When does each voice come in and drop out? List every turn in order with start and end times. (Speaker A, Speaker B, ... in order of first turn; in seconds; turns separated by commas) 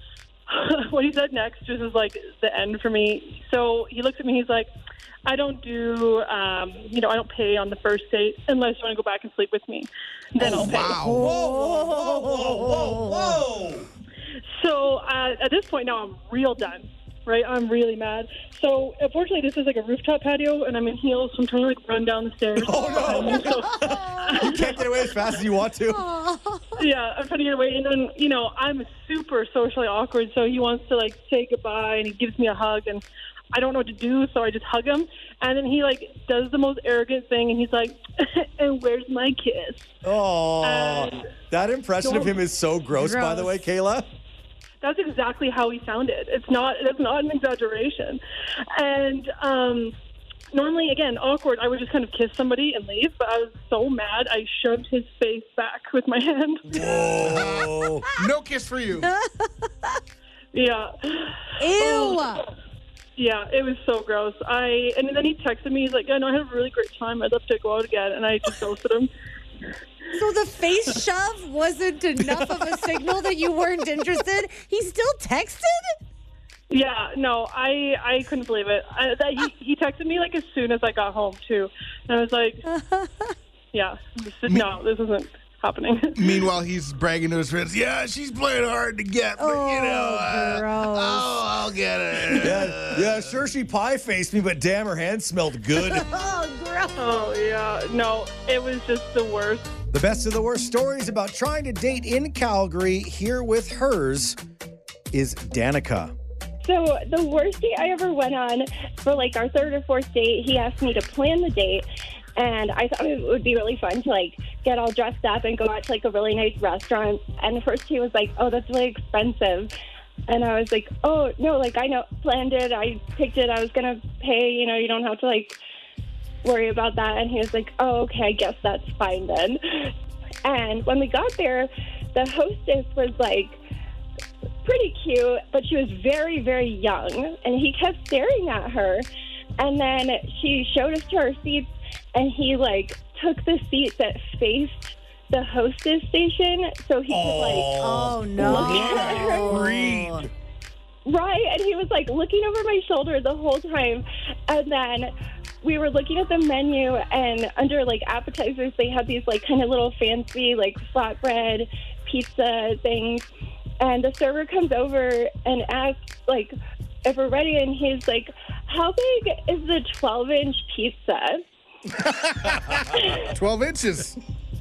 Speaker A: 0.5-4.7, Speaker A: 5.2-11.0, Speaker B: 10.4-13.9, Speaker C: 10.7-11.2, Speaker D: 11.0-13.4, Speaker A: 14.6-24.7, Speaker B: 22.6-26.0, Speaker D: 23.0-24.8, Speaker D: 25.9-26.8, Speaker A: 26.8-39.9, Speaker B: 40.0-44.1, Speaker A: 40.6-41.2, Speaker A: 42.0-42.4, Speaker D: 42.9-43.6, Speaker A: 44.8-48.2, Speaker A: 48.8-49.9, Speaker A: 50.5-56.8, Speaker B: 56.7-58.0, Speaker C: 57.2-59.1, Speaker D: 59.0-60.0, Speaker A: 60.5-62.4, Speaker D: 61.6-62.5, Speaker A: 63.2-69.1, Speaker D: 70.1-76.0, Speaker A: 76.7-82.6, Speaker D: 82.7-83.3, Speaker A: 83.7-86.5, Speaker C: 86.2-93.3, Speaker D: 89.4-91.4, Speaker D: 92.3-92.7, Speaker B: 92.3-96.0, Speaker D: 95.8-97.0, Speaker A: 97.0-99.7, Speaker B: 99.9-104.4, Speaker B: 105.1-106.1, Speaker E: 106.6-111.8, Speaker E: 112.4-119.7, Speaker E: 120.3-125.6, Speaker E: 126.4-129.9, Speaker E: 130.4-133.6, Speaker E: 134.6-139.1, Speaker E: 139.6-147.7, Speaker B: 147.1-148.3, Speaker D: 147.8-150.2, Speaker E: 148.4-149.7, Speaker C: 148.4-150.3, Speaker E: 151.0-155.1, Speaker E: 155.6-163.2, Speaker E: 163.8-171.4, Speaker C: 172.1-174.2